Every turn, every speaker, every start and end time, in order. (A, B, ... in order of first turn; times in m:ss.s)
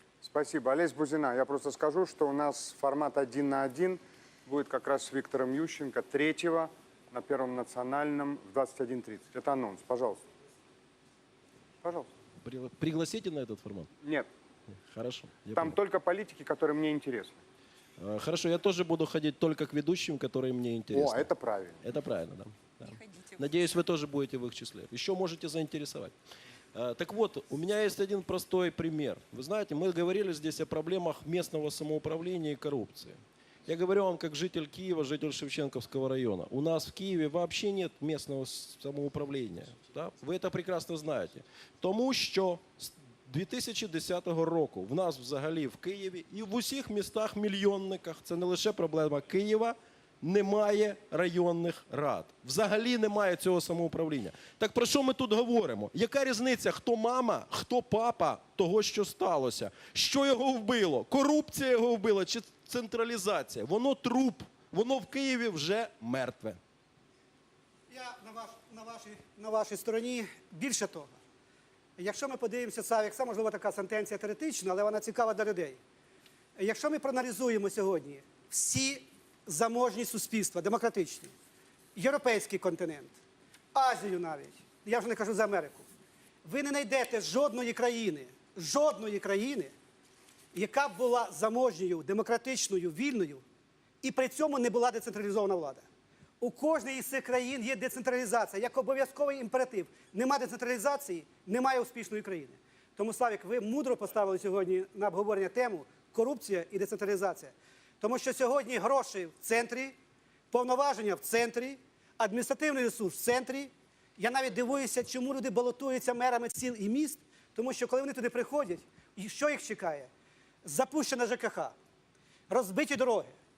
0:00.2-0:10.2 A
0:11.8-0:12.1 A
0:12.4-0:13.9 B
0:14.9-0:15.8 B
0:15.6-0:17.4 A
0:18.0-0:21.3 B
0:20.9-0:21.8 A
0:21.8-0:26.1 B
0:26.7-1:06.6 B
1:07.9-1:11.2 C
1:12.0-1:15.8 C
1:16.6-1:21.3 C
1:22.0-1:23.1 C
1:23.7-1:25.9 C
1:26.4-1:29.7 C
1:30.5-1:33.4 C
1:34.0-1:35.8 C
1:36.4-1:50.0 C
1:50.5-2:00.1 C
2:00.6-2:01.8 C
2:02.5-2:03.4 C